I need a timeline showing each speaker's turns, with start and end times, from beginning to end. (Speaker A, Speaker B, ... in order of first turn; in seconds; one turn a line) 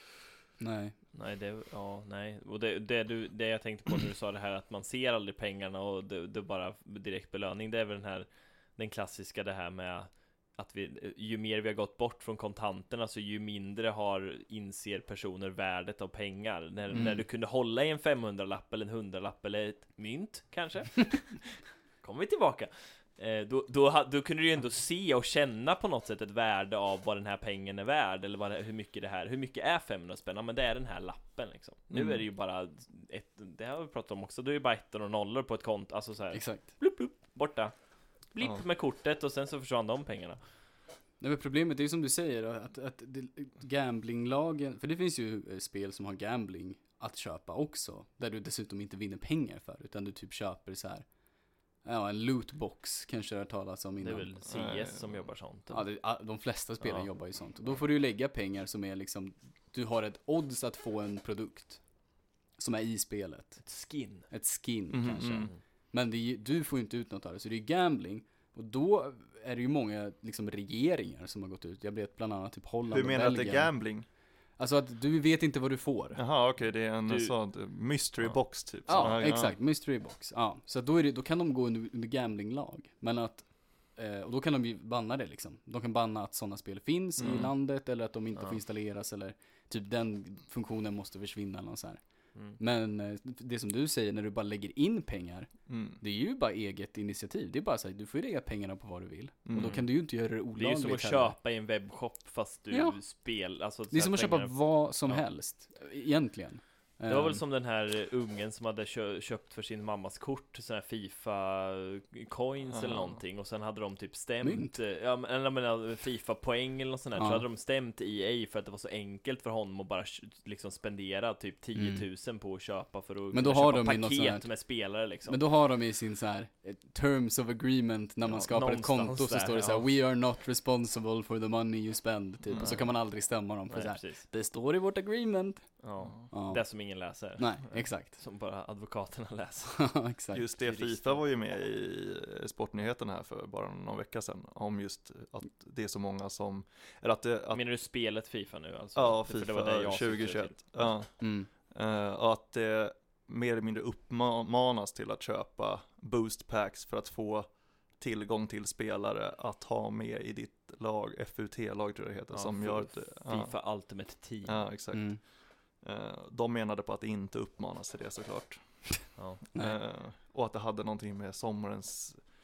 Speaker A: 0.6-0.9
Speaker B: 1.1-37.7
Speaker A: 16.9-17.2
Speaker C: 31.9-32.2
Speaker A: 36.3-36.6
Speaker B: 38.3-40.4
Speaker A: 41.2-51.0
Speaker A: 51.8-54.3
Speaker B: 54.0-55.8
Speaker C: 54.5-55.3
Speaker A: 55.7-61.8
Speaker A: 62.6-63.6
Speaker B: 63.6-64.3
Speaker A: 64.3-73.7
Speaker C: 64.9-65.5
Speaker C: 72.9-74.0
Speaker A: 74.6-76.2
Speaker C: 76.1-79.5
Speaker B: 77.1-77.3
Speaker A: 78.9-92.0
Speaker B: 78.9-79.2
Speaker C: 87.2-87.5
Speaker A: 92.6-101.3
Speaker C: 95.7-96.0
Speaker C: 99.5-99.8
Speaker B: 99.6-99.9
Speaker B: 100.5-105.2
Speaker A: 102.7-103.0
Speaker A: 103.9-107.4
Speaker B: 107.1-125.4
Speaker C: 112.7-113.2
Speaker A: 114.4-114.7
Speaker A: 117.2-117.4
Speaker A: 121.7-122.0
Speaker A: 123.3-124.5
Speaker A: 125.2-135.7
Speaker B: 128.2-129.9
Speaker C: 132.5-132.8
Speaker B: 133.7-134.2
Speaker B: 135.8-140.0
Speaker A: 136.3-136.7
Speaker A: 137.4-138.1
Speaker A: 139.8-140.4
Speaker C: 140.3-147.6
Speaker B: 140.6-141.2
Speaker B: 147.5-150.9
Speaker C: 148.9-157.5
Speaker A: 151.2-151.5
Speaker C: 158.0-163.5
Speaker B: 162.3-164.6
Speaker C: 164.4-165.2
Speaker A: 164.9-165.2
Speaker C: 165.8-168.8
Speaker C: 169.5-172.2